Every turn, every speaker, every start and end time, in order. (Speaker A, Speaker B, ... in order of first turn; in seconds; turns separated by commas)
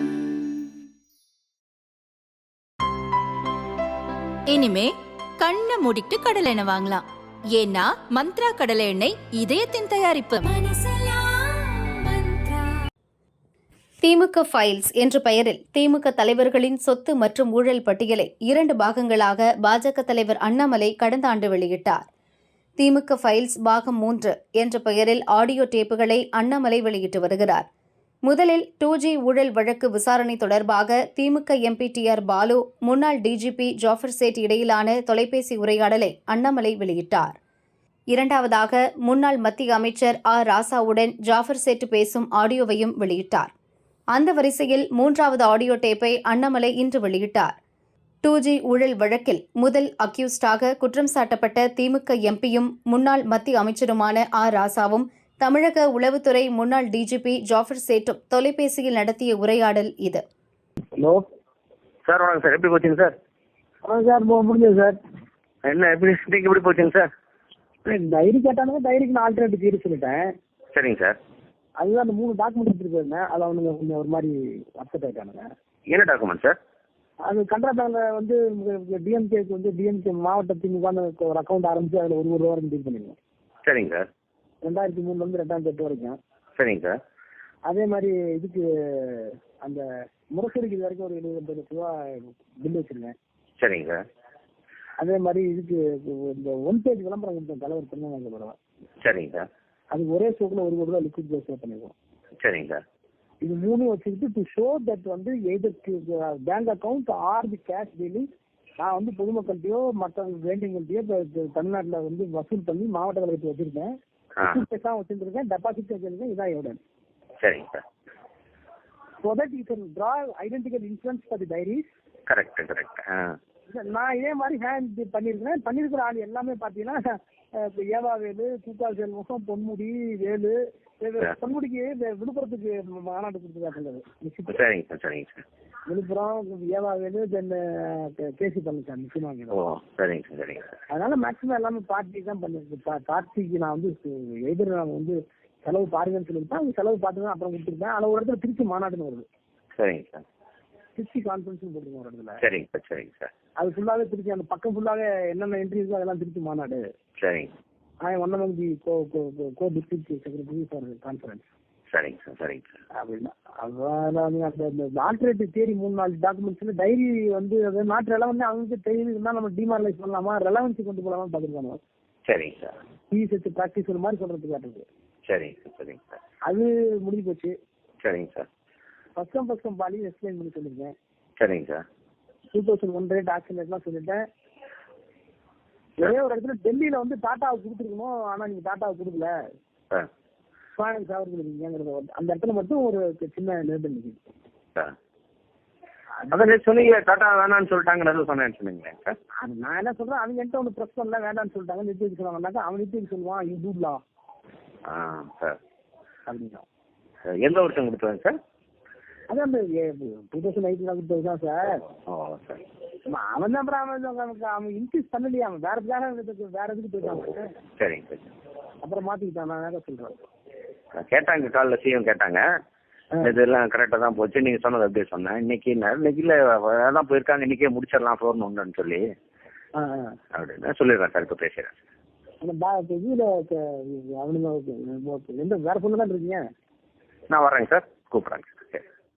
Speaker A: 4.5-12.7, Speaker B: 14.0-22.0, Speaker B: 22.8-27.6, Speaker B: 28.2-37.4, Speaker B: 38.1-43.5, Speaker B: 44.1-47.5, Speaker B: 48.2-60.2, Speaker C: 61.0-61.2, Speaker D: 62.0-63.1, Speaker C: 63.8-65.0, Speaker D: 65.7-67.1, Speaker C: 67.8-70.3, Speaker D: 70.7-71.2, Speaker C: 71.8-75.5, Speaker D: 75.9-76.6, Speaker C: 77.2-83.2, Speaker D: 83.6-84.0, Speaker C: 84.6-86.2, Speaker D: 86.6-87.0, Speaker C: 87.6-89.8, Speaker C: 90.3-93.1, Speaker D: 93.6-94.0, Speaker C: 95.0-98.6, Speaker D: 99.0-99.5, Speaker C: 99.9-101.9, Speaker D: 102.4-102.8, Speaker C: 103.4-108.3, Speaker C: 108.8-116.8, Speaker D: 117.4-117.8, Speaker C: 119.2-121.8, Speaker D: 122.3-123.3, Speaker C: 123.7-127.0, Speaker C: 127.5-134.6, Speaker D: 134.5-135.4, Speaker C: 135.9-139.6, Speaker D: 139.5-140.8, Speaker C: 140.9-149.2, Speaker D: 149.8-150.2, Speaker C: 151.0-152.4, Speaker D: 152.4-153.3, Speaker C: 153.6-156.8, Speaker D: 157.2-157.5, Speaker C: 158.0-161.4, Speaker D: 161.9-162.8, Speaker C: 162.9-171.8, Speaker D: 172.3-172.8, Speaker C: 173.1-174.8, Speaker D: 175.3-176.2, Speaker C: 176.4-177.5, Speaker D: 178.0-178.5, Speaker C: 179.2-180.9, Speaker D: 181.4-181.8, Speaker C: 182.5-184.2, Speaker C: 186.0-189.3, Speaker C: 190.8-194.2, Speaker D: 196.3-199.2, Speaker C: 199.4-204.0, Speaker D: 204.9-205.6, Speaker C: 206.3-206.6, Speaker D: 207.3-208.4, Speaker C: 209.3-211.8, Speaker D: 212.1-212.6, Speaker C: 213.1-217.5, Speaker D: 217.8-218.3, Speaker C: 218.8-220.2, Speaker D: 220.9-222.4, Speaker D: 223.2-229.1, Speaker C: 229.8-230.2, Speaker D: 230.3-231.8, Speaker C: 232.4-236.4, Speaker D: 237.3-238.8